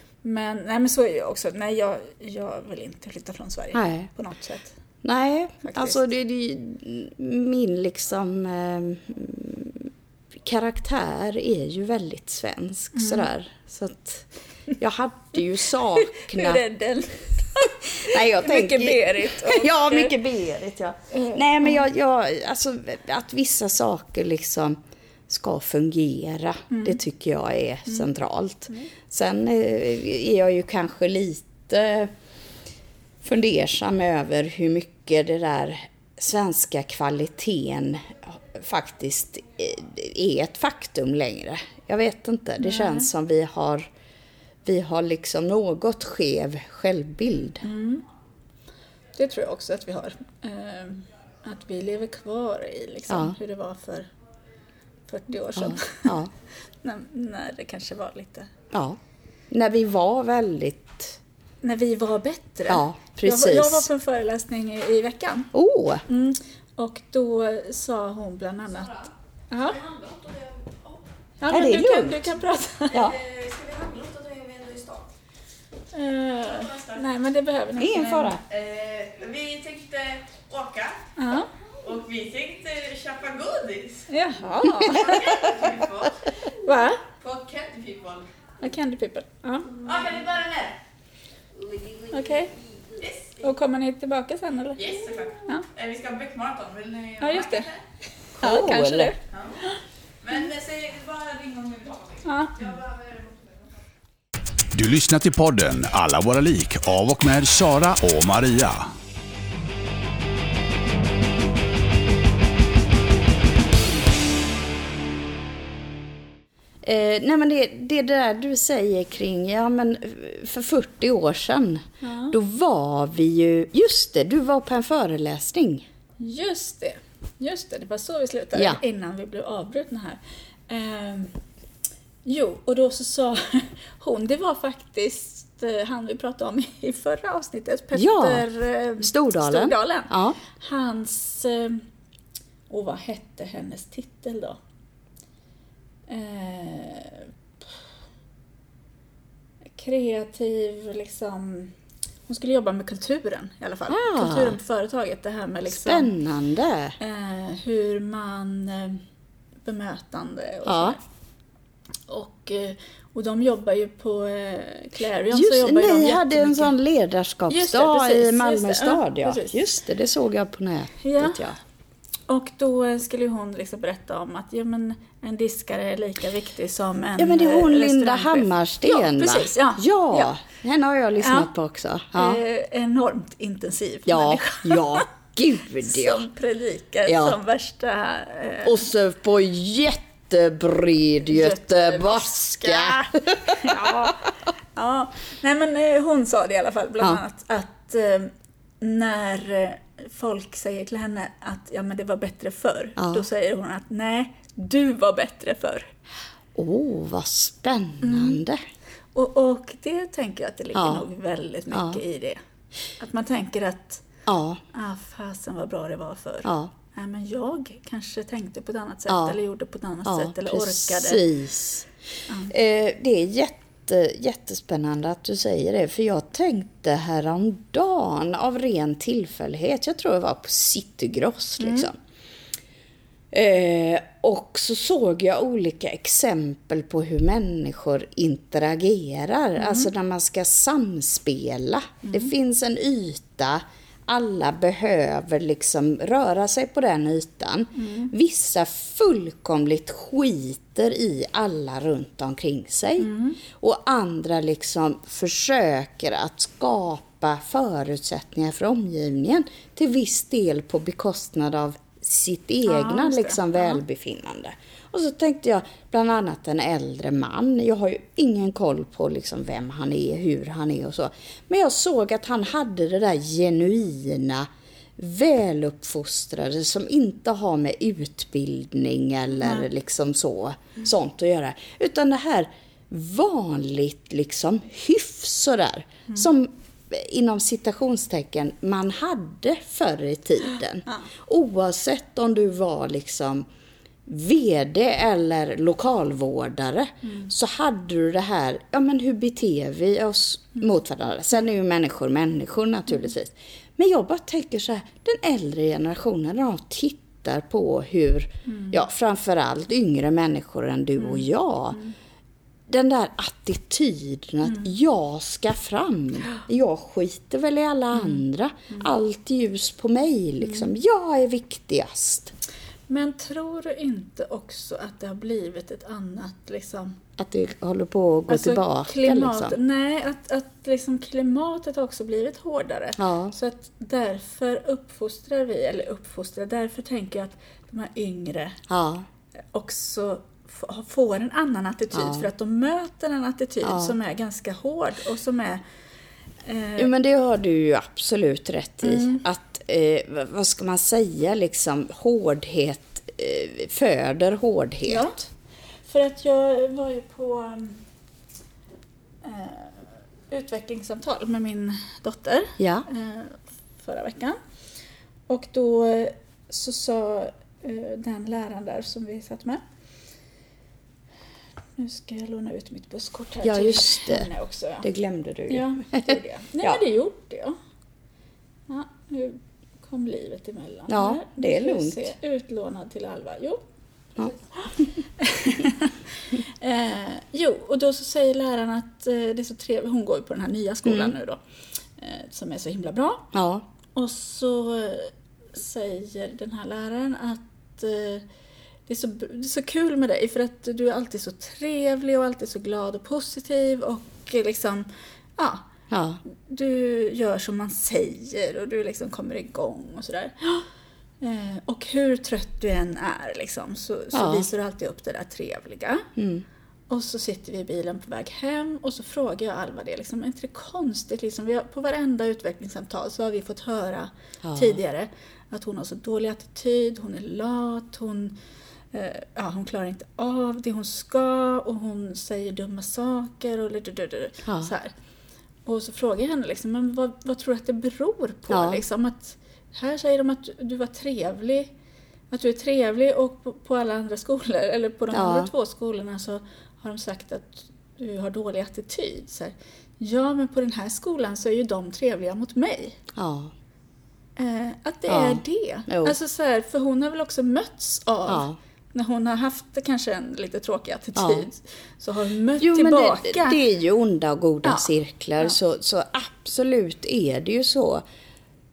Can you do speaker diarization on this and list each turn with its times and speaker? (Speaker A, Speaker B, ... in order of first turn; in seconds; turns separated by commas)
Speaker A: 0.2-4.8, Speaker B: 3.7-4.1, Speaker B: 5.0-9.9, Speaker A: 5.6-6.0, Speaker B: 10.4-16.6, Speaker A: 12.9-13.3, Speaker A: 15.9-20.1, Speaker B: 18.1-32.1, Speaker A: 21.1-21.9, Speaker A: 26.7-27.0, Speaker B: 33.2-43.9, Speaker A: 42.6-43.1, Speaker B: 44.6-47.6, Speaker A: 47.6-48.0, Speaker A: 49.1-54.1, Speaker B: 53.1-53.4, Speaker A: 55.1-56.2, Speaker B: 55.5-56.3, Speaker A: 56.8-58.5, Speaker B: 58.7-59.0, Speaker B: 59.5-61.2, Speaker A: 61.6-65.5, Speaker B: 62.7-63.9, Speaker B: 65.5-66.0, Speaker A: 66.1-69.8, Speaker C: 69.8-70.9, Speaker A: 71.4-73.1, Speaker B: 71.5-72.3, Speaker B: 72.9-73.2, Speaker C: 73.2-75.0, Speaker A: 75.9-78.4, Speaker B: 77.8-78.4, Speaker C: 78.5-81.0, Speaker A: 81.2-81.5, Speaker C: 81.8-84.0, Speaker A: 84.1-85.5, Speaker B: 84.8-85.7, Speaker C: 84.9-86.2, Speaker A: 86.6-87.1, Speaker C: 87.2-88.3, Speaker A: 88.6-89.8, Speaker C: 89.8-90.8, Speaker A: 92.1-92.5, Speaker A: 93.4-94.9, Speaker C: 94.8-97.7, Speaker A: 97.2-97.7, Speaker B: 98.4-99.1, Speaker A: 98.4-99.8, Speaker C: 100.2-103.3, Speaker A: 102.2-102.8, Speaker D: 104.7-108.9, Speaker B: 116.8-125.9, Speaker A: 122.0-122.4, Speaker A: 126.2-131.4, Speaker B: 128.5-128.8, Speaker A: 132.2-141.8, Speaker B: 137.9-138.5, Speaker B: 139.0-140.4, Speaker A: 142.7-144.6, Speaker A: 146.1-147.3, Speaker A: 149.7-151.7, Speaker A: 152.3-156.1, Speaker B: 153.9-154.6, Speaker B: 155.7-156.9, Speaker A: 157.0-159.0, Speaker A: 159.6-161.0, Speaker B: 160.6-161.0, Speaker A: 162.1-166.7, Speaker B: 165.3-171.6, Speaker A: 167.5-169.6, Speaker A: 171.0-171.5, Speaker A: 172.3-180.3, Speaker B: 177.2-182.4, Speaker A: 181.2-181.5, Speaker A: 182.1-185.0, Speaker B: 184.1-186.3, Speaker A: 185.8-188.8, Speaker B: 187.1-187.4, Speaker B: 188.6-194.1, Speaker A: 191.2-194.2, Speaker A: 194.8-205.9, Speaker B: 203.0-203.2, Speaker B: 206.5-208.6, Speaker A: 208.0-208.4, Speaker A: 209.1-212.4, Speaker B: 210.7-211.1, Speaker B: 211.7-212.0, Speaker A: 213.0-214.0, Speaker B: 214.2-214.6, Speaker A: 214.7-221.2, Speaker B: 216.4-216.7, Speaker B: 219.1-219.4, Speaker B: 220.0-221.9, Speaker B: 222.5-231.9, Speaker A: 231.6-231.9, Speaker B: 233.3-293.5, Speaker A: 239.6-239.9, Speaker A: 242.0-242.3, Speaker A: 247.7-248.1, Speaker A: 253.0-253.4, Speaker A: 262.6-263.8, Speaker B: 294.1-311.8, Speaker A: 297.0-297.3, Speaker A: 308.5-308.8, Speaker A: 311.0-311.9, Speaker B: 312.7-322.4, Speaker A: 314.4-314.7, Speaker A: 317.9-318.2, Speaker A: 320.4-320.7, Speaker A: 322.9-327.0, Speaker B: 327.2-329.6, Speaker A: 328.3-338.6, Speaker B: 333.0-333.4, Speaker B: 338.7-339.1, Speaker A: 339.5-345.6, Speaker B: 341.9-342.3, Speaker B: 343.6-343.9, Speaker A: 346.4-346.9, Speaker B: 346.8-355.2, Speaker A: 348.8-349.2, Speaker A: 354.9-355.2, Speaker A: 355.9-357.8, Speaker A: 359.2-364.4, Speaker B: 362.6-362.9, Speaker A: 365.3-369.6, Speaker A: 371.8-374.9, Speaker B: 373.4-374.3, Speaker B: 374.8-376.8, Speaker A: 375.5-377.6, Speaker A: 378.7-383.6, Speaker B: 380.9-382.1, Speaker A: 384.2-391.4, Speaker B: 390.9-391.1, Speaker A: 392.0-393.3, Speaker B: 393.3-393.6, Speaker A: 393.9-398.2, Speaker A: 398.9-405.7, Speaker B: 405.9-406.2, Speaker A: 406.5-410.6, Speaker A: 411.2-416.1, Speaker B: 414.1-414.5, Speaker B: 416.1-416.4, Speaker A: 416.9-428.4, Speaker B: 424.4-424.8, Speaker A: 428.9-434.9, Speaker B: 434.4-434.7, Speaker A: 435.6-441.7, Speaker B: 438.5-438.8, Speaker A: 442.3-453.0, Speaker B: 445.1-445.5, Speaker B: 453.1-453.5, Speaker A: 454.4-463.6, Speaker B: 455.1-456.1, Speaker B: 458.3-458.6, Speaker B: 461.1-461.5, Speaker B: 462.6-468.0